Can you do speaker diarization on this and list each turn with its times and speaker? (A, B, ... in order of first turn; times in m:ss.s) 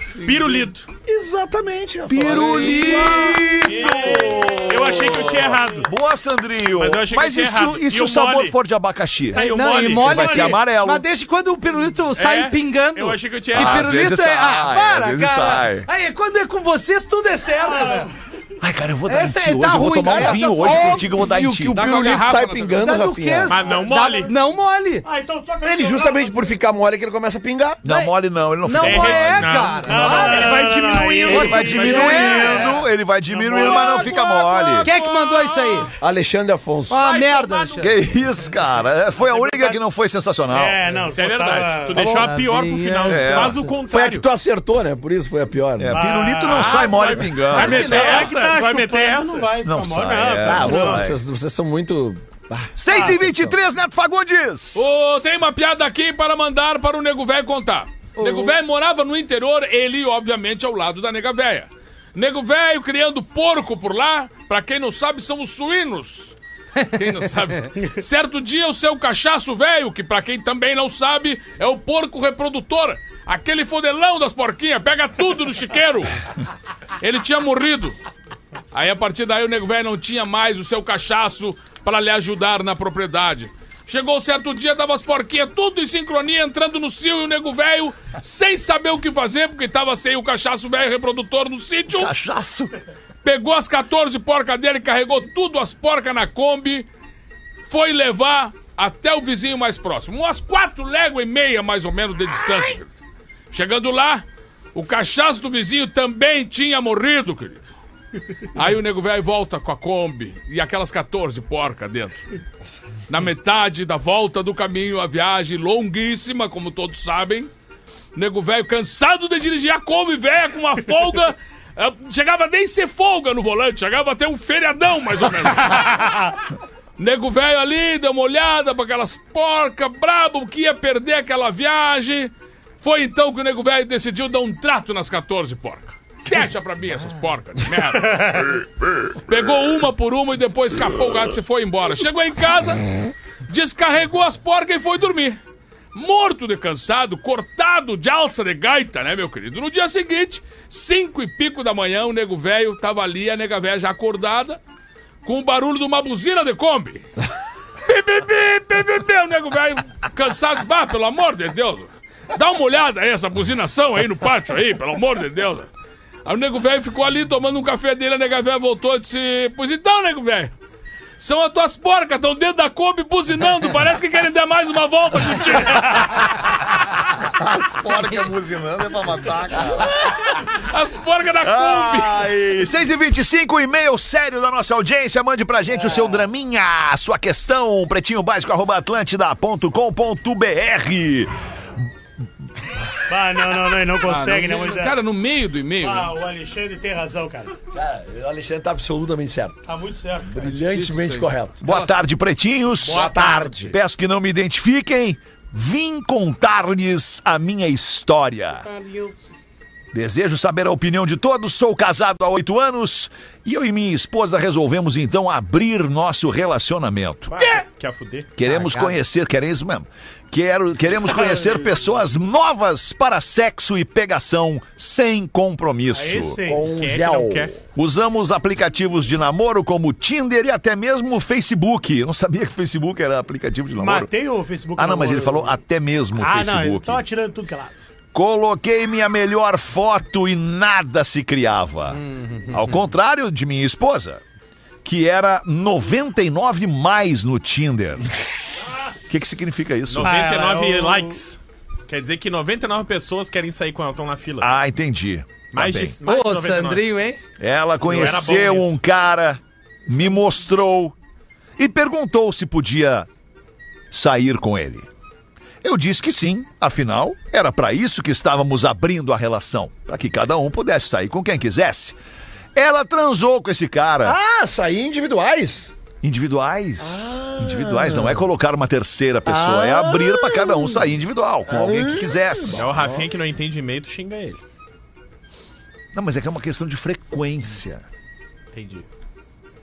0:00.2-0:00.6 A
0:00.2-0:00.9 B
0:01.0-0:03.3 C
0:02.1-0:09.4 D
0:02.2-0:03.5 A
0:03.6-0:05.9 B
0:03.8-0:04.7 E
0:06.7-0:08.6 B
0:09.3-0:10.5 B
0:09.3-0:18.1 F
0:10.0-0:11.0 D
0:12.2-0:13.9 B
0:13.5-0:15.9 D
0:17.6-0:18.1 E
0:18.6-0:22.1 D
0:19.1-0:21.2 F
0:20.0-0:23.6 C
0:21.7-0:22.8 A
0:22.8-0:25.0 F
0:23.5-0:24.3 B
0:25.0-0:26.4 E
0:25.6-0:27.8 C
0:27.8-0:34.9 D
0:27.8-0:30.6 F
0:28.8-0:32.8 B
0:29.8-0:32.7 E
0:31.3-0:32.6 F
0:33.6-0:35.9 A
0:34.8-0:35.9 F
0:36.0-0:37.0 C
0:36.9-0:38.0 F
0:37.0-0:37.9 B
0:37.8-0:40.8 D
0:40.5-0:42.3 E
0:41.0-0:44.2 B
0:41.9-0:43.7 F
0:43.1-0:43.6 D
0:43.9-0:46.0 C
0:45.8-0:48.2 D
0:45.9-0:51.1 E
0:46.4-0:49.6 B
0:47.8-0:48.2 F
0:49.6-0:51.2 D
0:50.4-0:53.5 C
0:52.8-0:55.2 D
0:52.9-0:53.2 E
0:54.7-1:06.3 A
0:58.2-0:58.6 F
1:06.9-1:16.2 A
1:17.0-1:18.0 A
1:18.7-1:32.1 A
1:31.9-1:32.7 D
1:33.2-1:36.9 A
1:37.7-1:43.0 A
1:43.5-1:47.6 A
1:48.5-1:52.3 A
1:53.1-1:57.5 A
1:58.1-2:06.3 A
2:07.0-2:18.6 A
2:18.0-2:18.4 E
2:19.2-2:22.8 A
2:23.5-2:25.4 A
2:25.9-2:34.6 A
2:35.2-2:37.1 A
2:37.8-2:45.7 A
2:46.2-2:50.5 A
2:51.2-2:56.4 A
2:57.2-2:59.9 D
2:59.9-3:02.3 A
3:01.4-3:11.8 D
3:13.1-3:15.0 E
3:14.0-3:16.1 A
3:15.8-3:17.5 E
3:17.7-3:19.6 C
3:19.6-3:20.6 E
3:20.3-3:21.6 C
3:20.6-3:21.9 A
3:21.6-3:28.6 D
3:22.8-3:23.8 C
3:23.0-3:23.3 B
3:28.6-3:29.2 E
3:29.9-3:37.3 D
3:37.3-3:38.3 B
3:38.4-3:46.4 D
3:38.4-3:39.0 F
3:41.1-3:41.6 E
3:45.9-3:46.7 E
3:46.4-3:47.5 C
3:46.7-3:47.5 B
3:47.7-3:54.1 D
3:53.8-3:55.6 E
3:54.8-3:57.0 D
3:56.2-3:57.7 E
3:58.1-4:04.2 D
4:01.9-4:02.7 F
4:04.8-4:08.1 D
4:09.1-4:10.2 D
4:09.9-4:14.5 B
4:10.0-4:11.2 E
4:14.4-4:16.0 D
4:15.5-4:16.9 B
4:16.0-4:17.2 F
4:17.4-4:20.9 D
4:17.8-4:18.8 B
4:21.6-4:23.1 D
4:23.9-4:24.9 D
4:25.6-4:32.0 D
4:32.5-4:34.2 D
4:34.0-4:35.7 C
4:36.0-4:42.7 D
4:36.8-4:38.2 C
4:39.2-4:40.9 C
4:41.5-4:43.1 C
4:42.5-4:44.4 B
4:45.9-4:47.8 D
4:48.5-4:48.9 B